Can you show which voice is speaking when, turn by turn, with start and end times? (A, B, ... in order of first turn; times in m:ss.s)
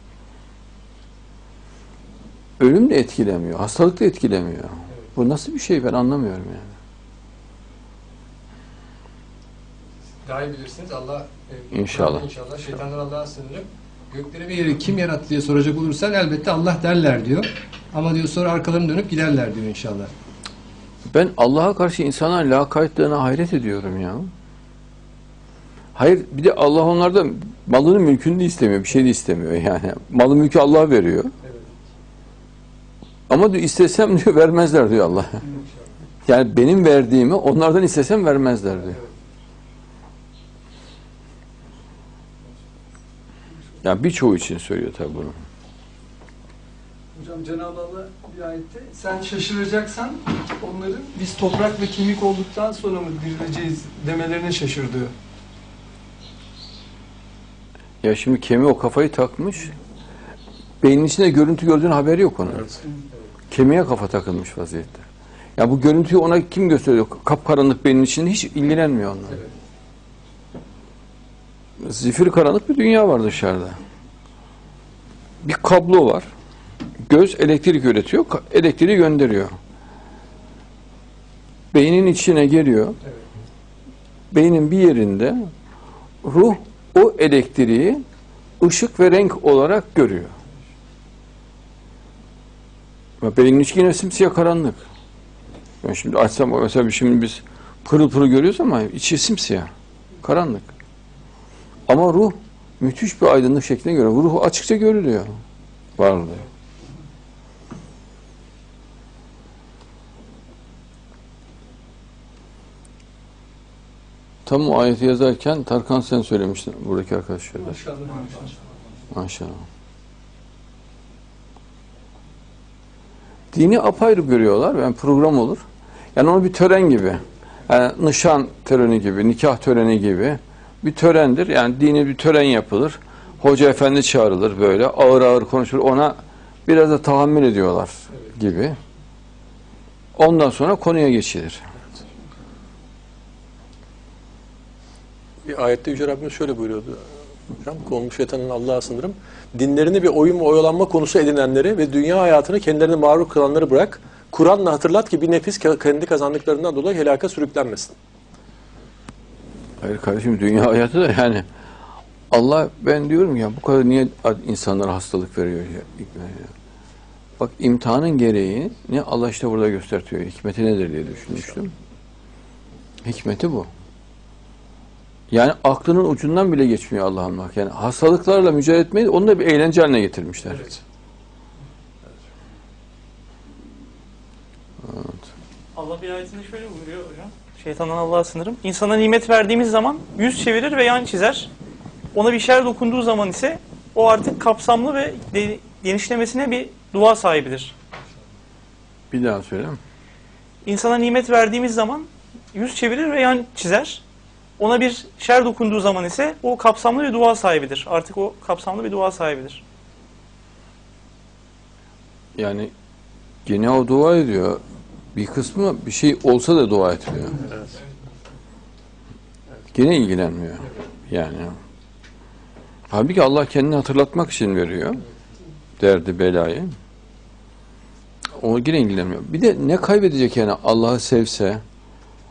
0:02.6-0:06.8 A
0:10.2-0:20.1 B
0:11.7-0:12.3 A
0:21.1-0:24.3 A
0:26.0-0:31.3 A
0:33.3-0:35.4 A
0:36.2-0:39.0 A
0:43.8-0:45.4 A
0:47.1-0:55.1 C
0:58.0-0:59.7 A
1:00.8-1:02.7 A
1:03.5-1:05.0 A
1:05.6-1:09.4 A
1:11.8-1:13.8 A
1:15.4-1:16.3 A
1:17.0-1:19.5 A
1:21.7-1:23.0 A
1:24.3-1:25.5 A
1:26.2-1:28.0 A
1:28.6-1:30.3 A
1:33.2-1:34.8 A
1:35.8-1:39.7 A
1:40.2-1:40.7 A
1:41.9-1:45.3 A
1:46.0-1:46.4 A
1:54.4-1:57.8 A
1:57.6-1:58.7 C
1:59.1-1:59.6 A
2:03.5-2:05.6 A
2:06.1-2:18.8 A
2:20.2-2:21.6 A
2:25.4-2:38.0 D
2:39.8-2:41.4 A
2:42.3-2:46.5 A
2:47.4-2:51.7 A
2:53.0-2:53.7 A
2:55.3-3:00.7 A
3:04.8-3:05.2 A
3:05.7-3:11.5 E
3:12.1-3:17.7 E
3:19.1-3:19.8 A
3:20.6-3:24.0 E
3:24.6-3:29.6 E
3:32.4-3:32.7 A
3:33.4-3:34.6 A
3:35.1-3:37.5 A
3:39.7-3:41.6 A
3:42.9-3:45.0 A
3:45.8-3:46.7 A
3:48.3-3:51.6 A